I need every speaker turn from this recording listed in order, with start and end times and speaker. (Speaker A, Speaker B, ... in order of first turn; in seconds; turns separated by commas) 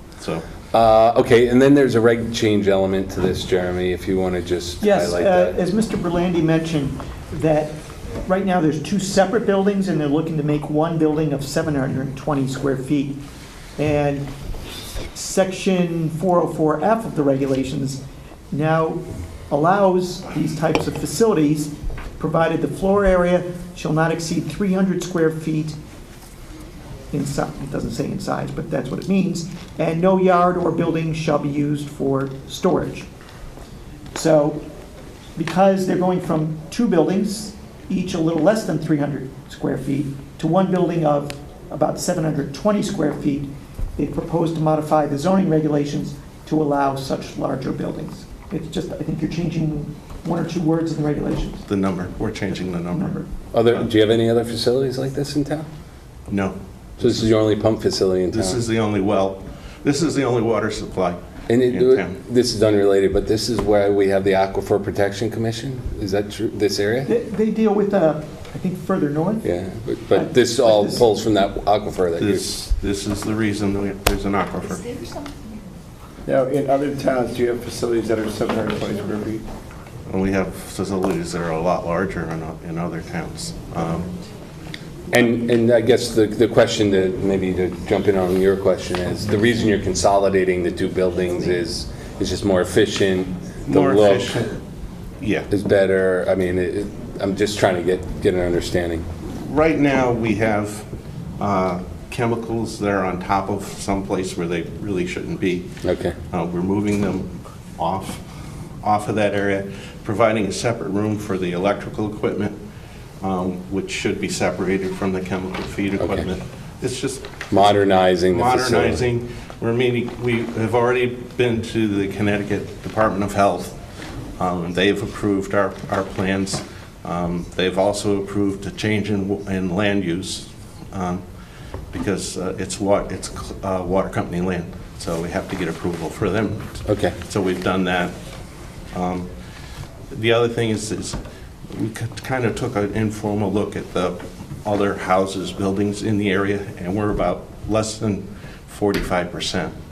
Speaker A: 0.2-0.4, Speaker B: 0.7-5.5, Speaker C: 4.8-13.2, Speaker C: 13.8-14.3, Speaker C: 15.1-25.8, Speaker C: 27.1-33.1, Speaker C: 34.1-34.6, Speaker C: 35.4-51.6, Speaker A: 51.7-53.9, Speaker C: 52.9-53.3, Speaker B: 53.5-55.7, Speaker A: 56.3-57.3, Speaker B: 57.0-58.6, Speaker A: 58.3-62.1, Speaker B: 61.5-67.1, Speaker C: 67.0-69.5, Speaker B: 69.4-72.5, Speaker C: 70.1-71.0, Speaker A: 72.2-75.1, Speaker D: 76.2-79.4, Speaker A: 80.1-84.1, Speaker B: 85.1-94.4, Speaker A: 93.7-94.5, Speaker A: 95.2-95.5, Speaker B: 95.5-99.1, Speaker A: 99.3-100.9, Speaker A: 101.4-105.7, Speaker B: 105.8-106.2, Speaker A: 106.3-108.2, Speaker A: 108.8-112.6, Speaker A: 113.2-123.8, Speaker B: 116.0-116.3, Speaker B: 117.5-119.0, Speaker A: 124.4-131.2, Speaker A: 131.9-138.1, Speaker B: 136.8-137.2, Speaker A: 138.9-139.3, Speaker A: 140.1-149.7